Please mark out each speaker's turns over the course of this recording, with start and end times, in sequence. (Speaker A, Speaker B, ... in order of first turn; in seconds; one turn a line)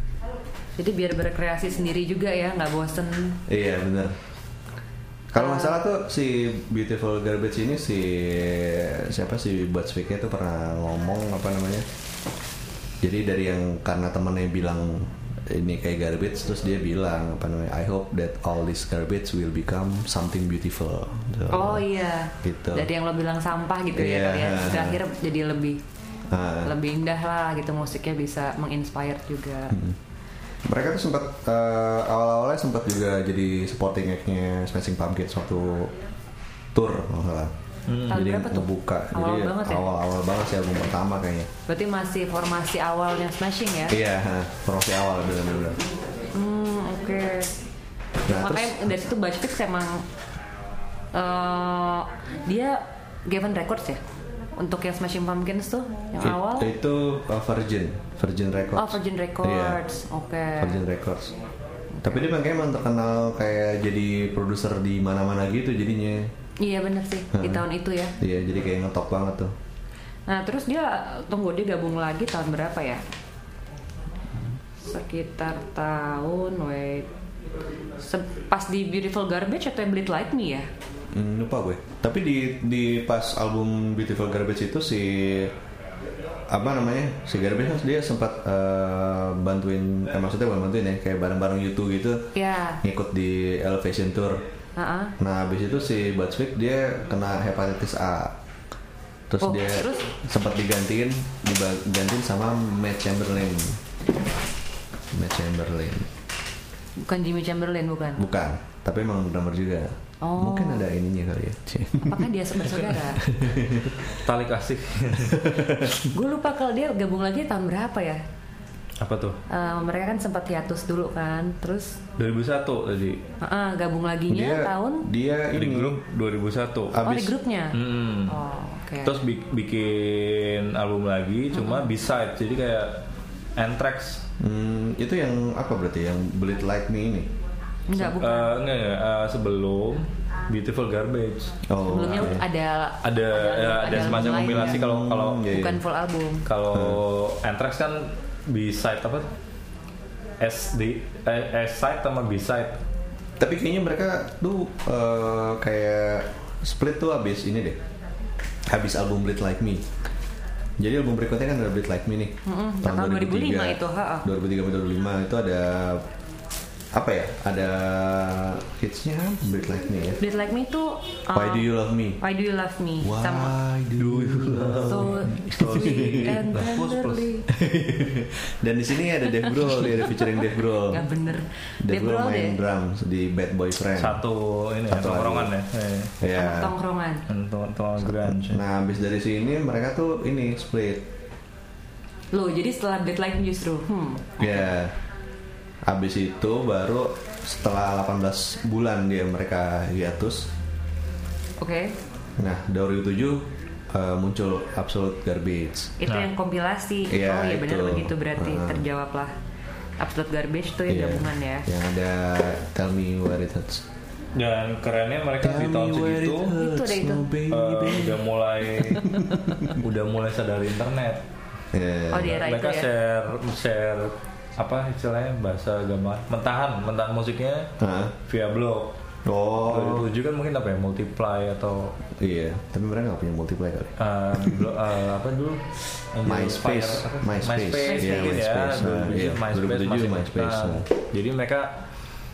Speaker A: 0.8-3.4
Speaker B: 3.5-4.2
Speaker B: 5.3-11.9
Speaker A: 5.3-5.8
Speaker B: 13.0-22.9
Speaker A: 21.5-25.8
Speaker B: 23.9-25.0
Speaker B: 26.3-26.7
Speaker A: 26.6-29.8
Speaker B: 29.7-30.0
Speaker B: 30.6-35.9
Speaker B: 36.7-37.5
Speaker C: 37.9-38.3
Speaker B: 38.1-41.5
Speaker A: 38.1-39.9
Speaker A: 41.7-44.0
Speaker B: 43.9-45.8
Speaker A: 46.3-47.5
Speaker A: 48.3-50.1
Speaker B: 48.3-48.9
Speaker A: 51.1-54.0
Speaker A: 54.6-56.7
Speaker B: 56.2-59.8
Speaker A: 58.8-60.8
Speaker B: 60.6-61.4
Speaker B: 62.0-66.3
Speaker A: 66.6-68.2
Speaker B: 67.3-67.7
Speaker B: 68.2-69.5
Speaker A: 70.3-73.0
Speaker A: 74.8-77.1
Speaker A: 78.0-80.7
Speaker B: 81.1-85.5
Speaker B: 86.5-94.4
Speaker A: 92.3-92.8
Speaker A: 94.8-95.2
Speaker B: 95.2-98.4
Speaker B: 99.3-103.8
Speaker A: 99.4-100.1
Speaker B: 105.1-106.1
Speaker A: 107.0-108.2
Speaker B: 108.2-114.0
Speaker A: 110.2-110.9
Speaker A: 112.0-113.2
Speaker C: 114.1-115.7
Speaker B: 115.3-116.0
Speaker A: 116.1-118.2
Speaker C: 119.0-119.4
Speaker A: 119.5-122.0
Speaker C: 122.2-123.2
Speaker A: 123.4-125.1
Speaker B: 124.3-126.0
Speaker C: 125.5-127.0
Speaker B: 126.9-127.3
Speaker A: 127.0-129.2
Speaker C: 127.7-128.4
Speaker C: 129.0-133.1
Speaker A: 131.5-131.9
Speaker C: 133.6-134.2
Speaker B: 134.4-137.3
Speaker A: 137.9-138.6
Speaker C: 138.0-141.6
Speaker B: 141.6-142.4
Speaker A: 141.8-144.8
Speaker C: 143.0-145.5
Speaker B: 143.9-145.8
Speaker A: 145.5-146.4
Speaker C: 146.5-149.3
Speaker B: 146.7-147.0
Speaker C: 150.4-152.8
Speaker B: 153.4-157.8
Speaker B: 158.7-159.9
Speaker B: 160.8-166.0
Speaker A: 162.4-164.3
Speaker B: 166.9-170.2
Speaker A: 170.2-173.6
Speaker B: 171.3-172.2
Speaker B: 173.0-176.7
Speaker C: 174.0-177.3
Speaker A: 174.7-177.4
Speaker B: 177.5-181.1
Speaker A: 179.7-180.2
Speaker A: 180.8-182.6
Speaker B: 181.8-184.2
Speaker C: 183.9-186.1
Speaker B: 184.9-185.5
Speaker B: 186.2-186.8
Speaker A: 186.3-187.2
Speaker C: 187.3-188.6
Speaker B: 188.1-191.1
Speaker A: 192.3-194.6
Speaker B: 194.4-194.9
Speaker B: 195.8-200.5
Speaker A: 201.6-202.0
Speaker B: 202.4-205.9
Speaker A: 206.0-209.3
Speaker B: 207.1-208.8
Speaker A: 210.0-211.7
Speaker B: 210.9-213.9
Speaker C: 214.3-216.6
Speaker B: 215.4-219.8
Speaker A: 216.5-217.3
Speaker C: 217.5-219.1
Speaker C: 219.7-221.2
Speaker B: 221.7-222.4
Speaker A: 222.1-222.9
Speaker C: 222.2-227.7
Speaker B: 227.8-228.2
Speaker C: 228.3-228.9
Speaker B: 229.2-230.1
Speaker C: 229.7-232.0
Speaker B: 232.2-234.7
Speaker C: 234.0-241.7
Speaker B: 236.2-240.9
Speaker A: 237.8-238.4